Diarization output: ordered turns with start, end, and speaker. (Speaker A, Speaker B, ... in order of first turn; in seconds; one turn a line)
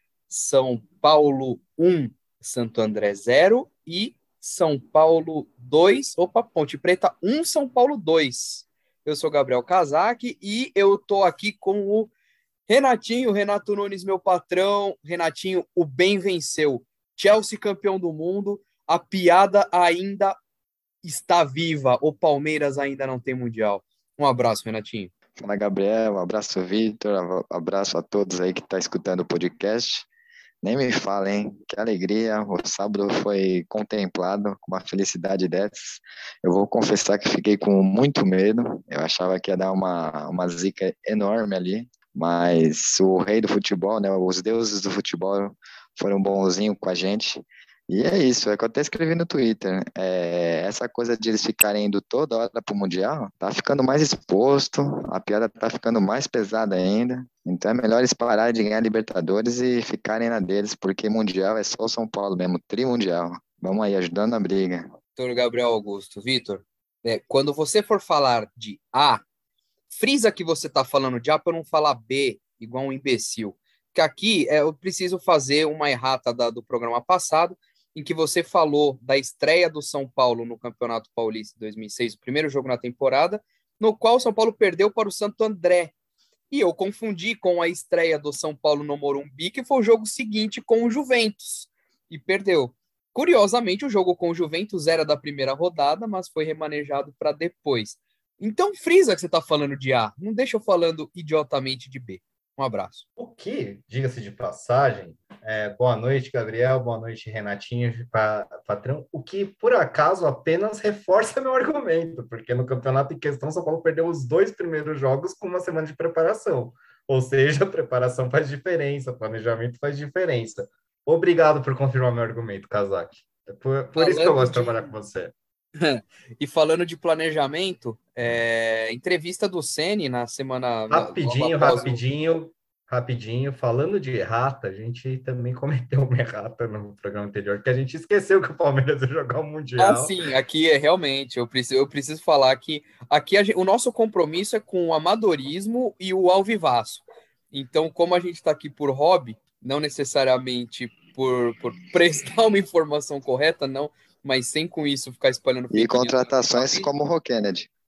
Speaker A: 0.3-12.1
Speaker A: 12.7-20.4
Speaker A: 21.0-25.1
Speaker B: 25.4-30.1
Speaker B: 30.6-64.9
Speaker A: 65.2-69.2
Speaker A: 69.9-85.9
Speaker A: 86.5-103.0
Speaker C: 103.2-125.3
Speaker A: 124.0-124.9
Speaker A: 125.8-132.0
Speaker C: 130.9-140.2
Speaker A: 139.8-156.9
Speaker B: 155.7-157.7